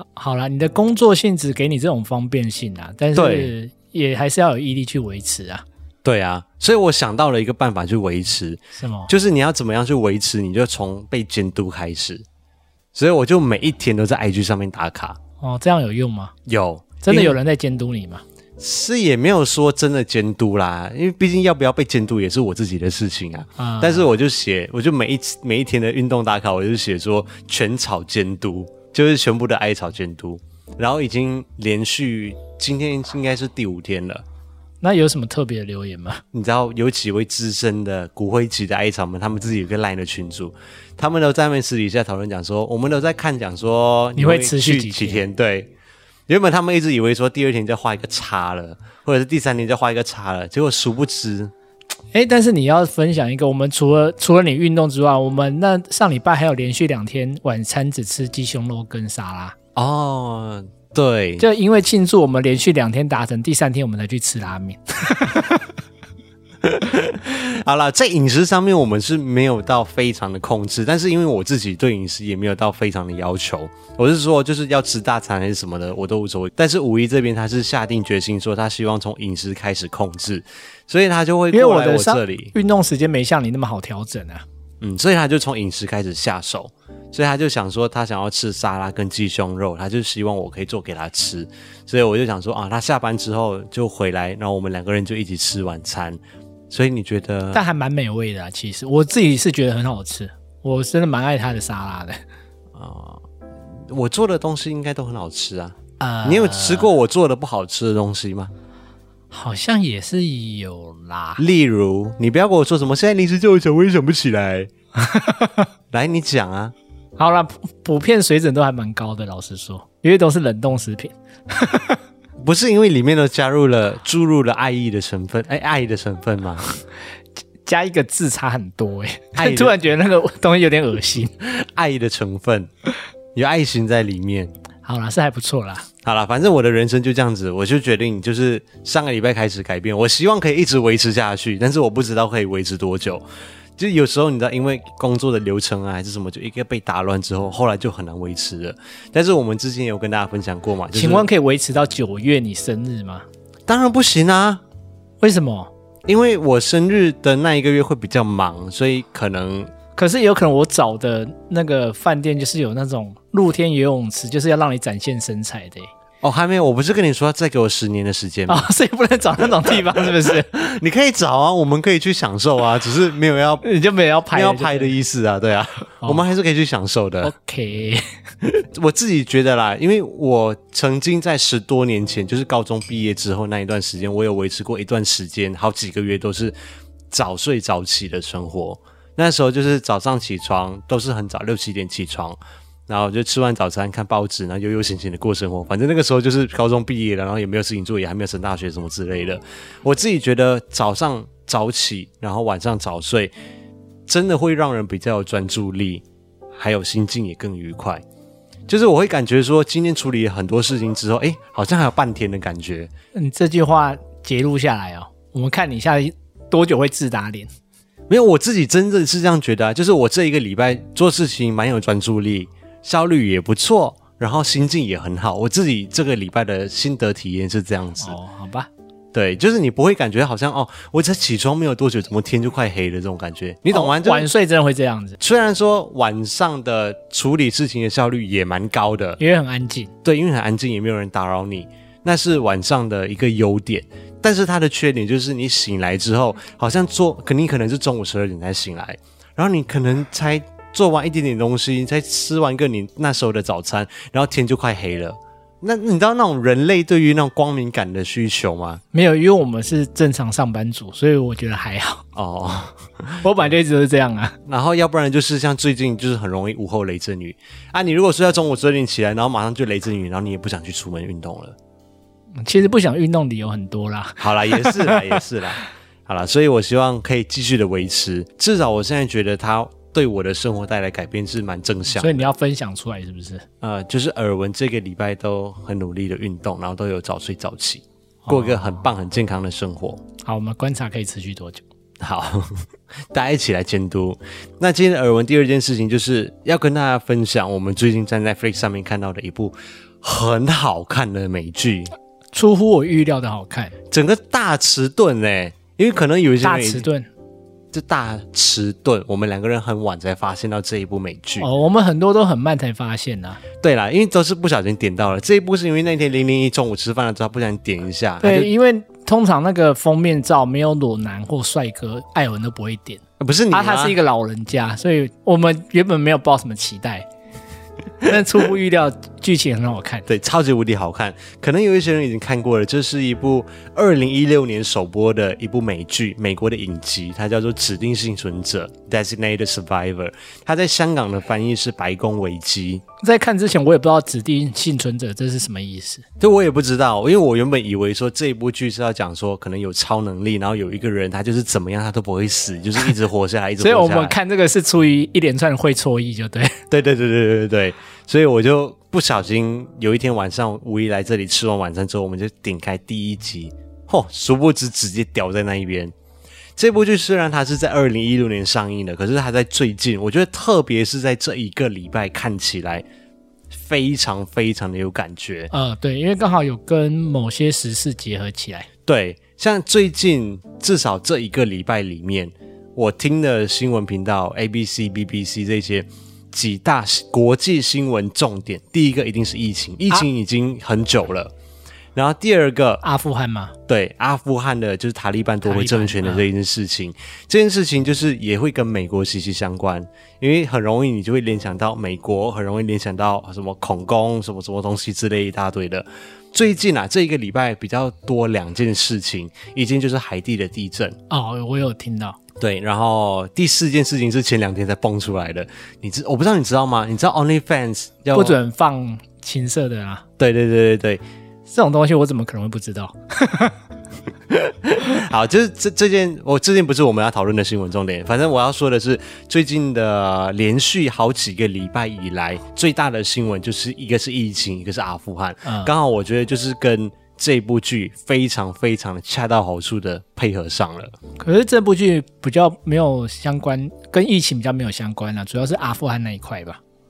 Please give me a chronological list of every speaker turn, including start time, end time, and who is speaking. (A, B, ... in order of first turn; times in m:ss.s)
0:00.2-0:05.6 A
0:03.1-0:03.5 B
0:06.0-0:12.2 B
0:08.8-0:09.1 A
0:12.9-0:15.2 B
0:15.4-0:16.3 A
0:16.4-0:17.4 B
0:17.0-0:18.2 A
0:18.6-0:34.2 B
0:23.6-0:24.0 A
0:34.8-0:36.2 A
0:36.3-0:45.7 B
0:44.2-0:45.2 A
0:46.3-0:51.5 B
0:52.1-0:59.6 A
0:59.8-1:01.4 B
1:01.4-1:05.6 A
1:06.6-1:22.5 B
1:21.5-1:24.4 A
1:24.8-1:37.6 B
1:37.5-1:42.2 A
1:42.7-1:43.2 B
1:43.7-1:48.5 B
1:46.0-1:46.9 A
1:49.3-1:51.4 A
1:51.4-1:54.7 B
1:55.0-1:55.7 A
1:55.9-1:56.7 B
1:57.2-2:02.0 A
2:02.4-2:06.6 B
2:07.6-2:11.3 A
2:09.3-2:09.8 B
2:11.4-2:12.7 B
2:13.3-2:14.5 B
2:14.8-2:15.8 A
2:16.0-2:23.2 B
2:23.8-2:31.3 B
2:30.9-2:33.2 A
2:33.7-2:34.6 B
2:35.2-2:35.7 A
2:36.0-2:39.7 B
2:40.0-2:45.9 A
2:46.2-2:48.7 B
2:48.5-2:50.5 A
2:49.6-2:53.6 B
2:53.6-2:54.9 A
2:54.3-2:57.3 B
2:57.2-2:58.0 A
2:58.4-3:06.5 B
3:07.1-3:23.3 B
3:24.1-3:26.0 B
3:26.6-3:28.0 B
3:28.7-3:32.9 B
3:33.1-3:37.5 A
3:38.1-3:48.2 B
3:48.0-3:48.7 A
3:49.1-3:54.3 B
3:53.7-3:55.2 A
3:55.2-3:59.2 B
3:59.2-3:59.9 A
4:00.0-4:18.8 B
4:18.9-4:22.0 A
4:22.1-4:23.3 B
4:23.2-4:24.3 A
4:24.4-4:31.6 B
4:32.4-4:35.2 A
4:34.2-4:42.3 B
4:41.9-4:43.4 A
4:43.6-4:50.0 B
4:48.2-4:48.7 A
4:50.2-4:51.6 A
4:52.0-5:01.9 B
5:02.3-5:03.7 A
5:03.9-5:06.8 B
5:06.4-5:07.1 A
5:07.7-5:11.5 B
5:11.4-5:13.4 A
5:13.6-5:18.5 B
5:18.2-5:27.1 A
5:23.2-5:24.0 B
5:28.0-5:30.0 A
5:30.1-5:42.8 B
5:43.0-5:46.0 A
5:46.2-5:54.2 B
5:53.6-5:56.6 A
5:56.7-6:05.9 B
6:06.6-6:12.8 B
6:13.5-6:15.5 B
6:15.5-6:18.7 A
6:18.9-6:31.3 B
6:31.9-6:32.8 B
6:32.8-6:33.5 A
6:33.7-6:51.0 B
6:35.4-6:36.2 A
6:51.1-6:52.2 A
6:52.4-6:58.4 B
6:58.1-7:00.0 A
7:00.2-7:01.0 B
7:01.5-7:03.6 A
7:04.3-7:20.9 B
7:15.4-7:15.7 A
7:21.2-7:26.6 A